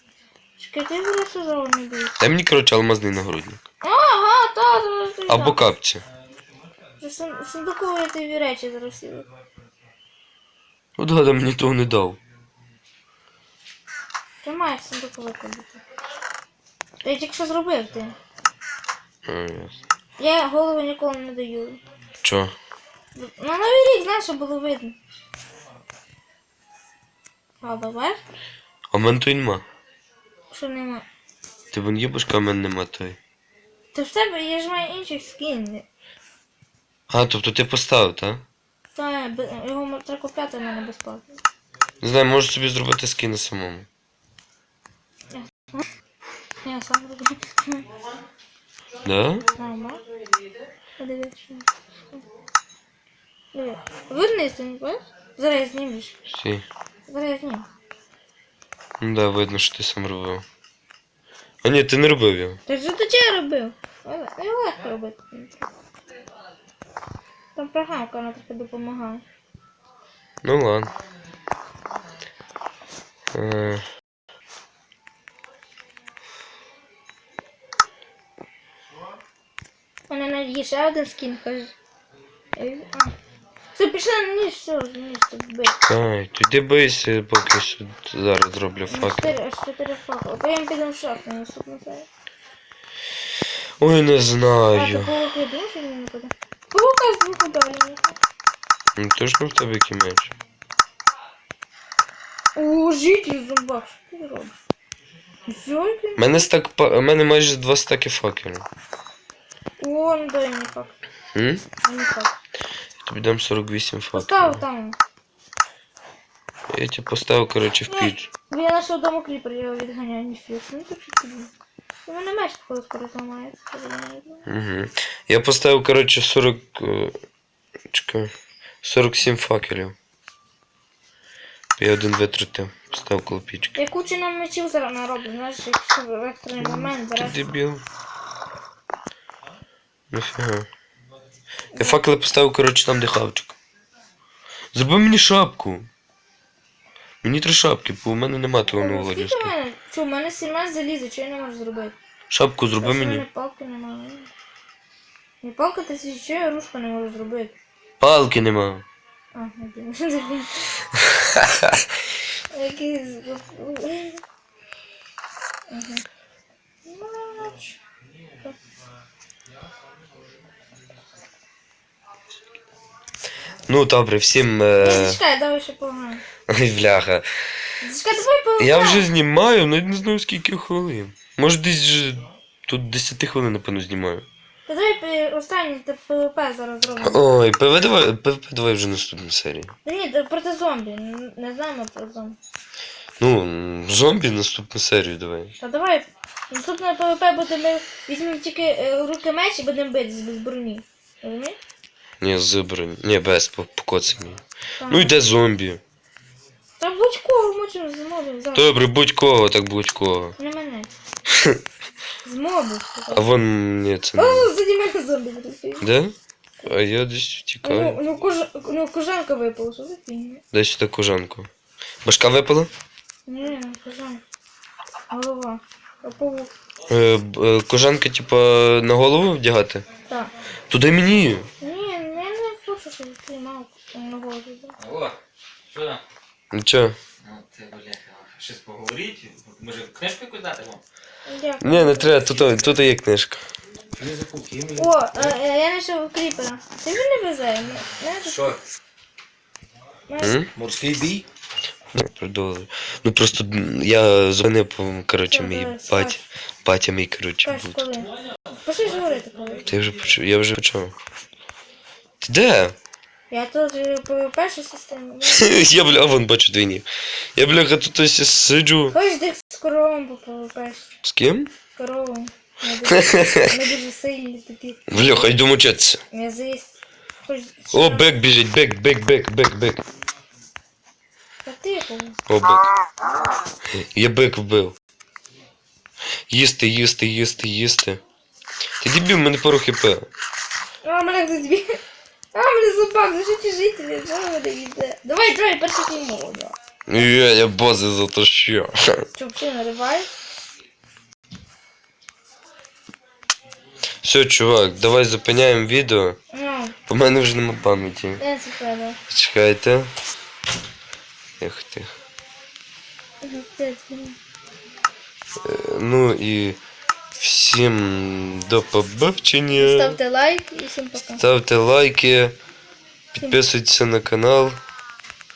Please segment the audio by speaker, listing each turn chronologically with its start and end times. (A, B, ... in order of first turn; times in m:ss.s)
0:00.6-0:02.2 A
0:02.2-0:03.6 B
0:03.8-0:05.6 A
0:05.3-0:06.0 B
0:07.0-0:09.3 A
0:11.0-0:12.2 B
0:14.4-0:15.8 A
0:17.0-0:18.2 A
0:19.2-0:19.8 B
0:20.2-0:21.8 A
0:22.2-0:22.5 B
0:23.1-0:25.0 A
0:27.6-0:28.2 A
0:28.9-0:29.6 B
0:30.5-0:31.0 A
0:31.7-0:33.2 B
0:33.9-0:35.8 A
0:37.1-0:38.4 B
0:38.9-0:41.4 A
0:42.0-0:43.9 B
0:45.3-0:45.8 A
0:46.6-0:47.8 A
0:49.0-0:49.4 B
0:49.6-0:50.0 A
0:51.0-0:52.2 A
0:53.5-0:56.2 A
0:56.3-0:56.6 B
0:57.1-0:57.7 A
0:59.0-1:00.4 B
1:01.6-1:02.6 B
1:02.7-1:05.7 A
1:07.6-1:09.2 A
1:10.4-1:10.9 B
1:13.3-1:13.8 B
1:20.1-1:21.7 A
1:22.6-1:23.1 A
1:23.7-1:25.8 A
1:25.8-1:29.3 B
1:28.9-1:32.1 A
1:33.8-1:35.1 B
1:34.7-1:38.2 A
1:39.0-1:40.3 B
1:42.5-1:44.5 A
1:45.5-1:46.5 A
1:46.2-1:48.7 B
1:49.8-1:51.0 A
1:51.3-1:51.6 B
1:51.8-1:52.3 A
1:53.0-1:54.6 B
1:54.1-1:55.0 A
1:56.7-1:58.3 B
1:57.9-2:01.5 A
2:02.0-2:04.4 A
2:04.5-2:07.2 B
2:07.9-2:08.3 B
2:08.8-2:09.9 B
2:11.8-2:13.8 B
2:13.8-2:17.5 A
2:16.6-2:17.8 B
2:20.1-2:20.7 B
2:21.7-2:22.0 A
2:21.8-2:23.6 B
2:24.7-2:25.9 B
2:27.2-2:29.5 B
2:28.8-2:32.0 A
2:32.3-2:33.2 B
2:32.8-2:34.3 A
2:35.4-2:37.5 A
2:38.0-2:38.8 B
2:39.3-2:40.8 A
2:41.2-2:41.8 B
2:42.5-2:44.2 A
2:45.7-2:46.0 A
2:46.8-2:47.8 A
2:53.7-2:55.2 B
2:54.8-2:56.2 A
2:56.5-2:57.2 B
2:57.8-2:59.1 A
2:58.6-3:04.2 B
3:04.7-3:07.2 A
3:07.0-3:09.7 B
3:09.8-3:12.4 A
3:13.2-3:15.5 B
3:15.6-3:21.6 A
3:22.2-3:25.8 B
3:24.8-3:25.2 A
3:26.8-3:28.8 A
3:28.5-3:30.3 B
3:30.4-3:30.9 A
3:31.3-3:31.6 B
3:32.2-3:33.2 A
3:33.1-3:34.5 B
3:34.2-3:35.8 A
3:35.8-3:38.0 B
3:37.6-3:40.4 A
3:40.5-3:41.5 B
3:42.0-3:42.7 B
3:43.3-3:44.2 A
3:45.1-3:46.5 A
3:46.9-3:49.8 B
3:50.7-3:51.5 B
3:51.6-3:54.7 A
3:54.8-3:55.2 C
3:55.7-3:56.0 C
3:56.5-3:57.0 B
3:57.2-4:00.8 C
4:01.2-4:02.7 A
4:01.6-4:03.4 B
4:04.0-4:05.2 C
4:04.7-4:08.6 A
4:10.1-4:10.4 A
4:10.2-4:10.5 B
4:10.5-4:11.2 C
4:11.9-4:17.8 B
4:15.3-4:16.2 A
4:17.4-4:19.7 A
4:19.6-4:20.9 B
4:22.2-4:22.7 B
4:23.3-4:25.6 A
4:25.3-4:28.9 B
4:28.9-4:30.9 A
4:31.0-4:31.5 B
4:31.8-4:35.1 A
4:32.9-4:33.5 B
4:34.9-4:36.0 B
4:36.1-4:36.7 A
4:37.2-4:38.2 A
4:37.7-4:39.8 B
4:41.4-4:42.2 A
4:42.3-4:42.7 B
4:43.7-4:44.8 B
4:46.3-4:48.0 B
4:48.8-4:50.1 B
4:50.8-4:51.8 A
4:52.3-4:56.6 A
4:56.9-4:58.7 B
4:59.2-5:00.1 A
5:04.0-5:06.2 B
5:06.3-5:06.8 A
5:06.9-5:08.2 B
5:08.2-5:09.0 A
5:09.1-5:09.9 B
5:11.4-5:11.9 B
5:13.2-5:14.2 A
5:15.4-5:16.6 B
5:17.2-5:20.0 B
5:19.6-5:21.2 A
5:21.2-5:22.3 B
5:23.1-5:24.6 B